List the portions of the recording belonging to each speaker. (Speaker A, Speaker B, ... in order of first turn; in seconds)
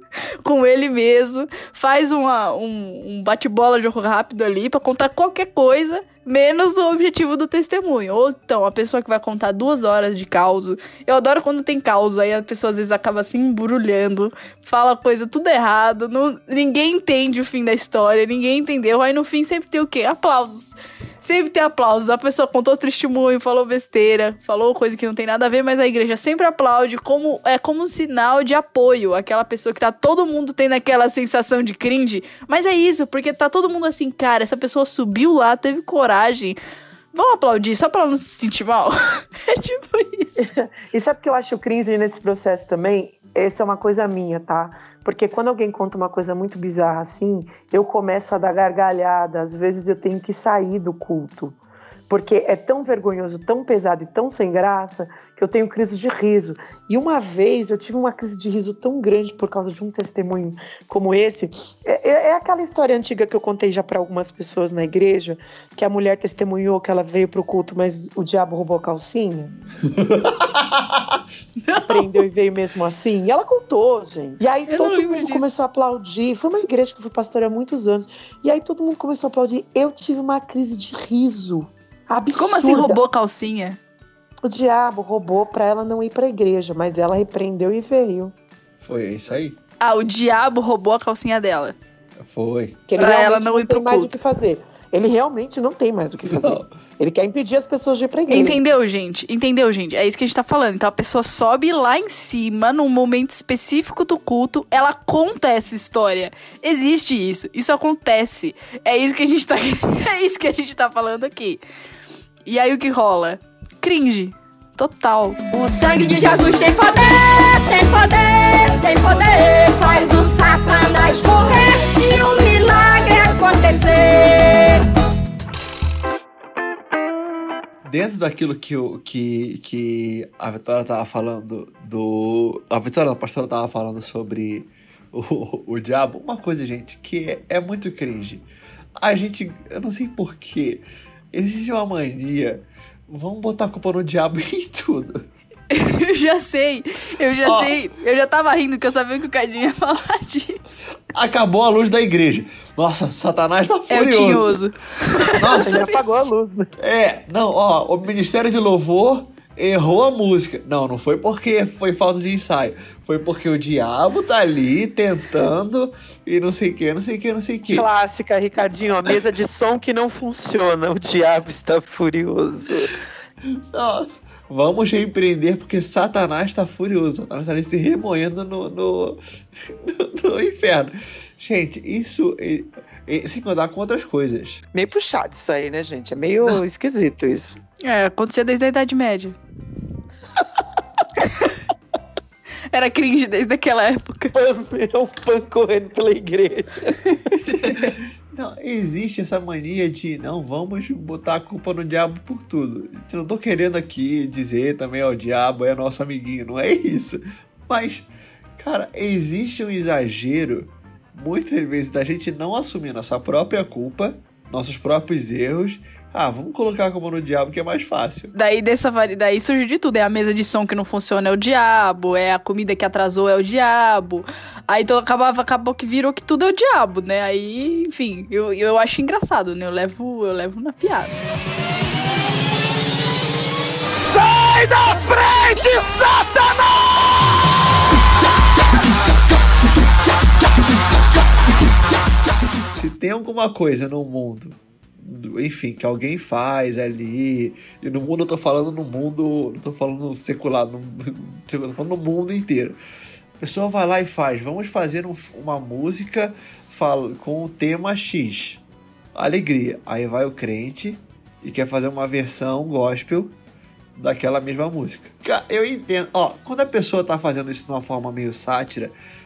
Speaker A: 0.4-36.6, 37.1-40.4, 71.7-72.2, 74.7-75.5, 82.3-83.8, 89.8-91.8, 93.0-94.1, 98.3-111.6, 112.4-115.4, 145.7-150.6, 153.9-156.0, 187.8-189.3, 192.7-194.3, 218.3-231.2
Speaker B: 40.4-51.6, 52.1-69.5, 71.8-83.0, 84.4-88.3, 92.9-98.6, 155.4-156.7, 167.7-173.0, 184.7-187.6, 194.3-197.9
Speaker C: 69.8-71.0, 88.8-89.6, 92.2-92.8, 96.3-96.7, 127.8-138.5, 139.0-145.2, 147.4-147.8, 151.1-154.6, 155.4-155.9, 156.8-167.9, 173.7-184.6, 197.4-208.1, 208.6-218.3, 242.7-252.8, 253.4-258.6, 259.1-263.4, 263.9-268.9
Speaker D: 115.5-124.8
Speaker E: 233.9-237.1